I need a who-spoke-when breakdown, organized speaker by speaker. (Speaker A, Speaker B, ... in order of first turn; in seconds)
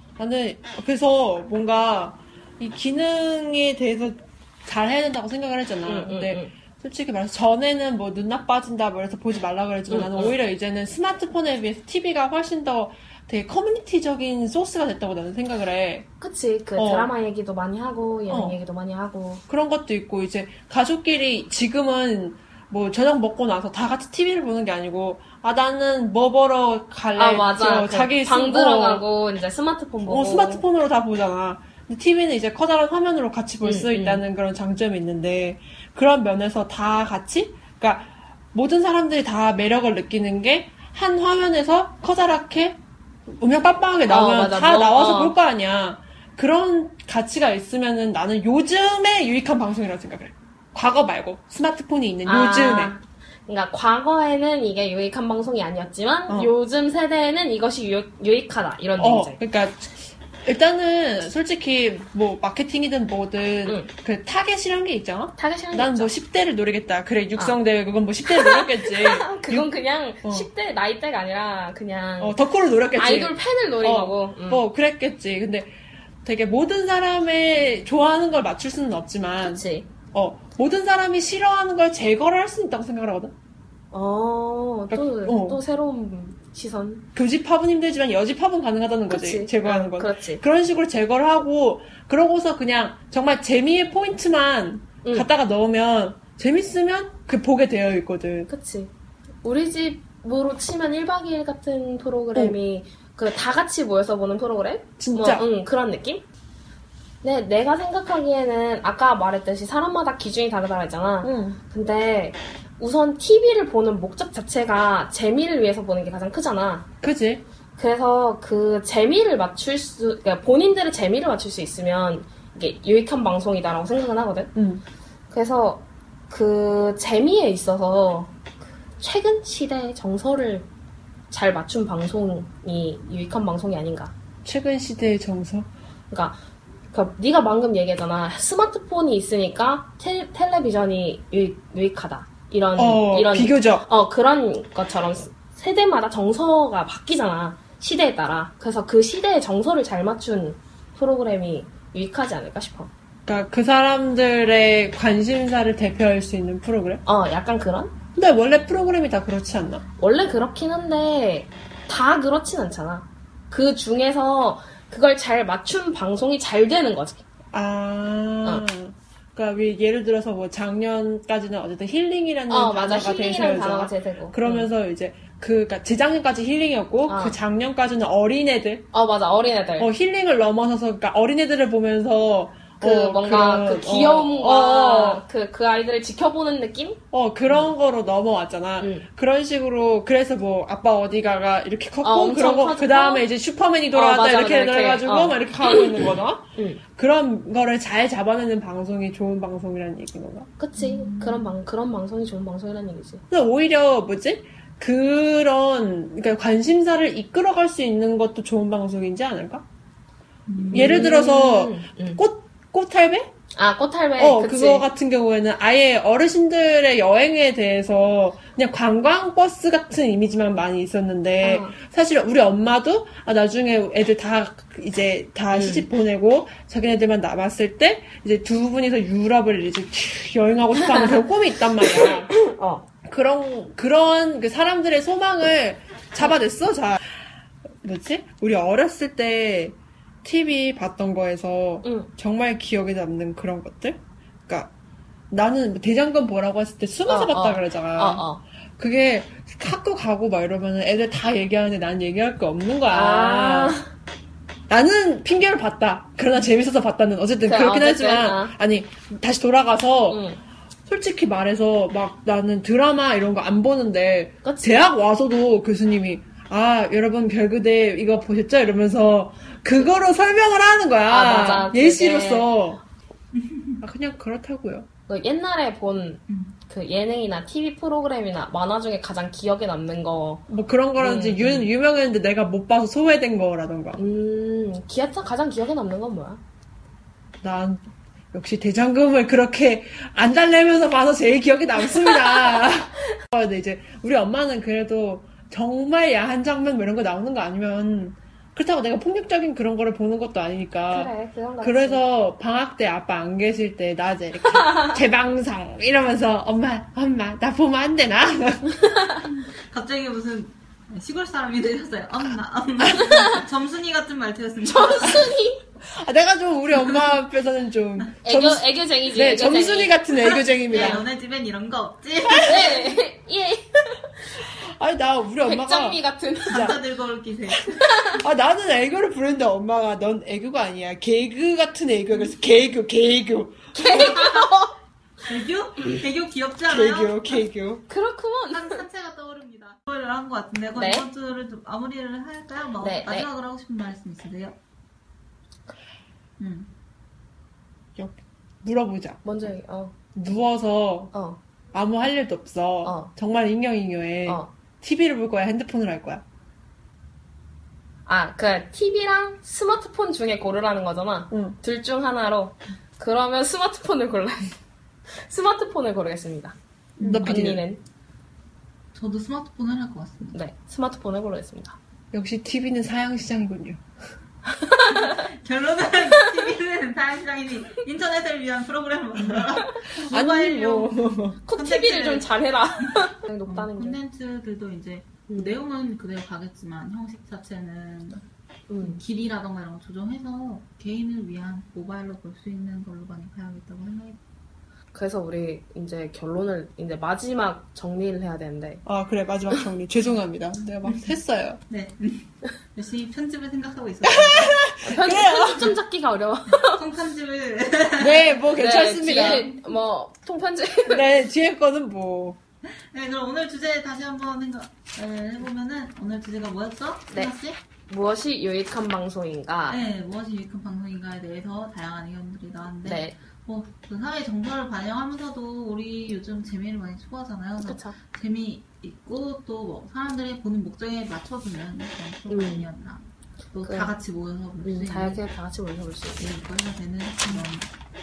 Speaker A: 0.2-16.1, 16.8-17.1, 18.3-18.6, 19.5-29.0, 30.0-52.9, 59.0-69.7, 72.2-83.3, 84.9-85.6, 87.1-98.5, 105.0-105.5, 111.2-111.6, 117.0-117.4, 124.5-124.8, 134.4-135.7, 142.8-143.9, 153.2-157.0, 158.2-159.8, 167.5-178.9, 179.8-185.2, 187.1-200.5, 203.3-209.6, 210.7-213.3, 214.2-232.3, 233.0-237.0, 237.8-244.7, 245.3-253.8, 254.7-260.2, 260.9-272.8, 273.8-274.9, 280.5-284.0, 287.4-308.9, 315.9-321.0, 322.3-322.6, 324.6-326.8, 327.5-334.2, 336.7-337.9, 348.0-349.4, 350.1-351.1, 351.7-356.2, 361.3-361.6, 367.0-367.6, 372.1-373.8, 379.9-381.4, 398.9-401.6, 404.0-405.8, 408.0-409.5, 410.9-412.4
Speaker B: 5.8-6.5, 9.9-10.4, 16.2-19.4, 27.1-30.6, 33.6-34.2, 44.1-45.4, 52.2-59.4, 65.4-66.1, 68.2-72.4, 72.9-74.7, 79.4-79.9, 83.9-87.1, 89.1-90.4, 95.0-95.3, 98.5-106.2, 107.2-116.9, 117.8-124.5, 125.3-128.4, 129.0-130.7, 131.3-134.1, 136.1-136.4, 136.9-152.9, 157.0-157.9, 160.0-167.2, 172.5-174.7, 177.1-177.4, 178.9-179.9, 182.8-187.7, 188.8-189.1, 192.0-193.3, 193.9-196.8, 200.6-203.2, 210.7-212.2, 213.5-214.9, 221.4-221.7, 225.5-225.9, 230.8-231.1, 231.8-232.9, 241.8-242.1, 247.1-248.4, 252.9-253.9, 257.4-258.5, 260.1-260.4, 264.4-264.9, 271.1-272.5, 275.1-280.4, 281.0-281.7, 284.0-286.4, 291.9-292.8, 300.9-302.0, 308.8-309.2, 313.1-313.4, 314.6-315.6, 318.2-321.0, 322.3-324.4, 325.4-326.7, 327.8-328.2, 333.7-334.8, 337.9-338.8, 340.8-341.1, 342.8-343.3, 349.2-349.9, 351.1-351.4, 352.8-353.1, 358.1-364.5, 365.1-366.6, 367.2-367.8, 370.3-371.8, 374.5-375.3, 381.5-384.0, 385.3-385.5, 388.7-389.0, 394.9-398.8, 404.8-406.8, 408.5-411.1, 417.9-419.8, 422.8-423.1, 427.6-428.0, 432.3-432.7, 433.6-433.9, 434.6-436.2
Speaker C: 200.8-201.5, 210.5-211.1, 273.3-273.8, 276.3-276.5, 309.2-315.3, 320.7-323.0, 326.5-328.0, 333.8-334.5, 335.2-337.4, 338.5-344.6, 346.4-346.7, 367.0-367.3, 368.9-370.4, 374.9-380.9, 381.5-382.3, 382.8-388.2, 388.8-394.2, 401.7-404.6, 406.5-408.4, 409.1-409.6, 412.7-417.6, 419.7-435.2, 436.2-437.7